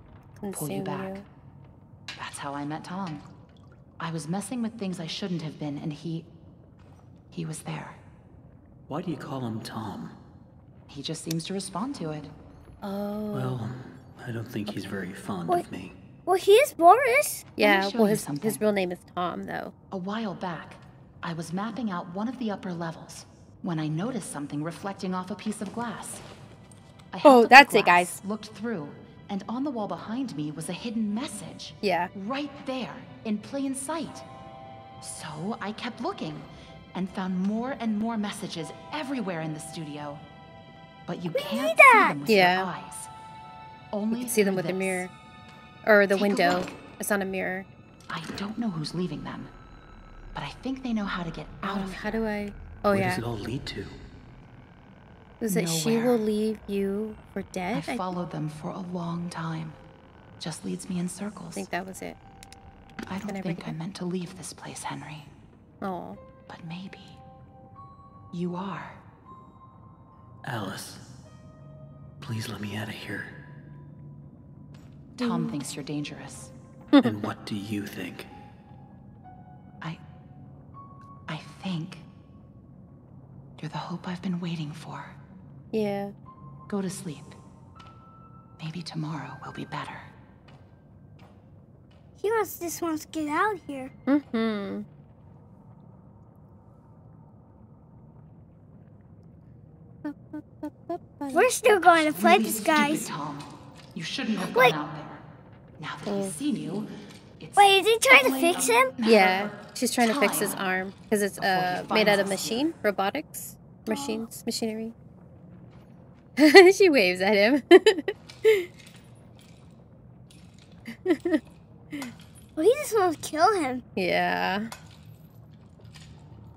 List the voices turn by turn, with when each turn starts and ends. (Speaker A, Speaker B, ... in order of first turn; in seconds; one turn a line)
Speaker A: 0.4-1.2
Speaker B: 0.5-1.2
Speaker B: 2.2-3.2
Speaker B: 4.0-6.3
Speaker B: 7.3-8.0
Speaker C: 8.9-10.2
Speaker B: 10.9-12.3
Speaker A: 12.8-13.6
Speaker C: 13.3-16.0
Speaker D: 16.3-17.5
Speaker A: 17.6-19.7
Speaker B: 17.6-18.6
Speaker B: 19.9-26.2
Speaker B: 27.1-34.3
Speaker A: 27.2-28.2
Speaker A: 31.8-32.1
Speaker B: 35.0-40.2
Speaker B: 41.1-43.1
Speaker D: 41.4-42.2
Speaker A: 42.2-42.7
Speaker B: 43.9-45.1
Speaker A: 44.1-45.1
Speaker A: 45.9-47.7
Speaker B: 46.1-46.7
Speaker B: 48.1-49.5
Speaker B: 50.3-52.2
Speaker A: 51.6-53.2
Speaker C: 52.9-54.0
Speaker A: 55.4-58.1
Speaker B: 55.5-56.2
Speaker B: 57.7-59.8
Speaker B: 60.4-61.7
Speaker A: 61.6-62.2
Speaker B: 63.1-65.3
Speaker A: 63.2-63.8
Speaker A: 65.8-66.2
Speaker B: 66.5-67.2
Speaker B: 68.3-69.0
Speaker C: 70.5-71.1
Speaker C: 72.2-73.4
Speaker B: 75.2-76.5
Speaker A: 75.2-75.7
Speaker C: 77.0-78.3
Speaker B: 81.3-82.1
Speaker B: 83.6-85.2
Speaker A: 85.7-86.1
Speaker B: 86.7-87.4
Speaker B: 88.6-90.1
Speaker D: 92.2-93.9
Speaker A: 94.1-94.9
Speaker A: 100.0-101.5
Speaker D: 101.3-103.1
Speaker B: 101.9-105.2
Speaker D: 104.4-104.8
Speaker B: 105.8-110.6
Speaker A: 106.1-106.4
Speaker D: 107.6-108.9
Speaker A: 109.0-114.9
Speaker B: 111.4-112.7
Speaker D: 113.9-114.2
Speaker A: 116.4-118.7
Speaker A: 121.0-121.4
Speaker D: 122.6-123.8
Speaker A: 124.0-124.7